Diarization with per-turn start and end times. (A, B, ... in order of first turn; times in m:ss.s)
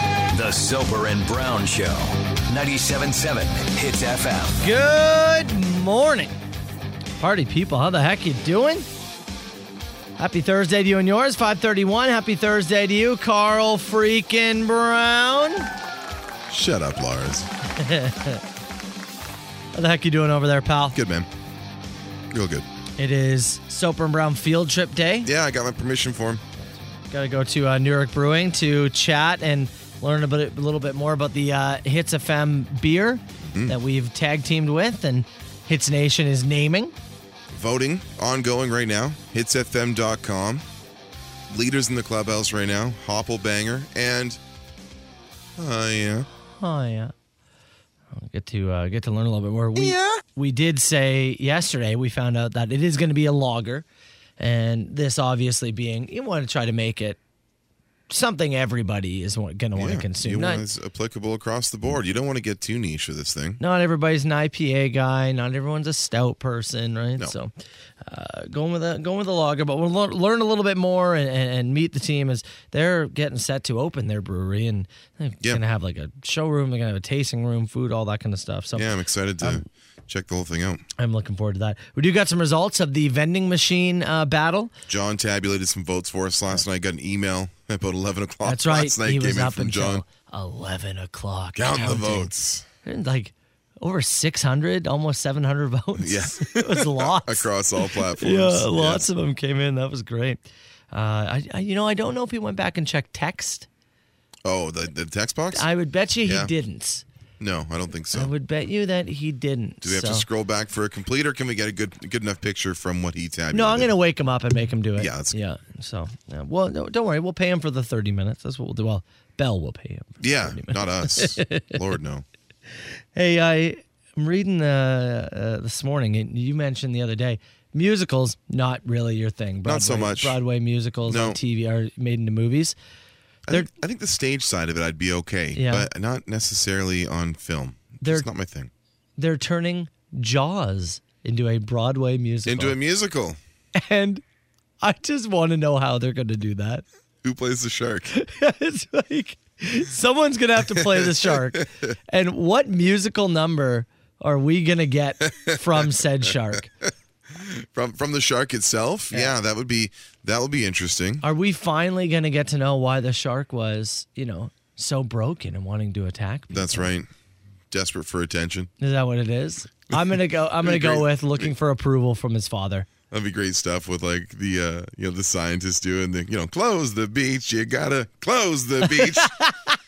0:00.3-0:04.6 A
0:04.6-0:06.3 B
0:07.2-0:08.9 B
0:10.2-0:15.7 B
0:16.5-0:17.5 C
0:17.7-0:18.4 B
0:19.7-0:21.0 B
0:20.9-0:21.3 C
0:22.3-0:22.6 C
0:23.0-0:25.3 B
0:25.2-0:26.4 C
0:27.1-0:36.9 B
0:33.4-0:33.8 C
0:37.5-0:40.6 C
0:41.5-0:44.4 C
0:45.6-0:46.3 C
0:46.6-0:47.1 B
0:48.1-0:53.8 B
0:49.7-0:50.2 C
0:54.4-0:57.2 B
0:58.1-1:00.6 B
0:59.8-1:03.6 C
1:03.6-1:07.5 B
1:08.0-1:19.6 B
1:18.7-1:20.8 C
1:21.0-1:24.7 B
1:24.9-1:30.0 C
1:28.4-1:32.3 B
1:31.6-1:32.6 C
1:32.8-1:43.7 B
1:36.0-1:39.0 C
1:44.4-1:45.7 C
1:45.5-1:47.0 B
1:46.2-1:46.5 C
1:47.4-1:48.3 C
1:48.1-1:50.2 B
1:49.8-1:53.9 C
1:53.5-2:01.7 B
1:55.0-1:55.3 C
2:00.2-2:02.2 C
2:03.1-2:12.8 B
2:09.6-2:10.4 C
2:11.1-2:11.4 C
2:13.5-2:18.7 C
2:15.5-2:15.9 B
2:18.0-2:18.3 B
2:19.2-2:22.8 B
2:22.4-2:23.4 C
2:23.8-2:24.2 B
2:24.8-2:26.8 B
2:27.2-2:28.1 C
2:28.1-2:36.7 B
2:30.6-2:31.9 C
2:35.3-2:35.9 C
2:37.3-2:41.2 C
2:41.2-2:46.9 B
2:46.5-2:47.1 C
2:47.7-2:48.7 C
2:48.8-2:52.9 B
2:50.6-2:51.5 C
2:53.1-2:59.3 C
2:59.0-2:59.7 B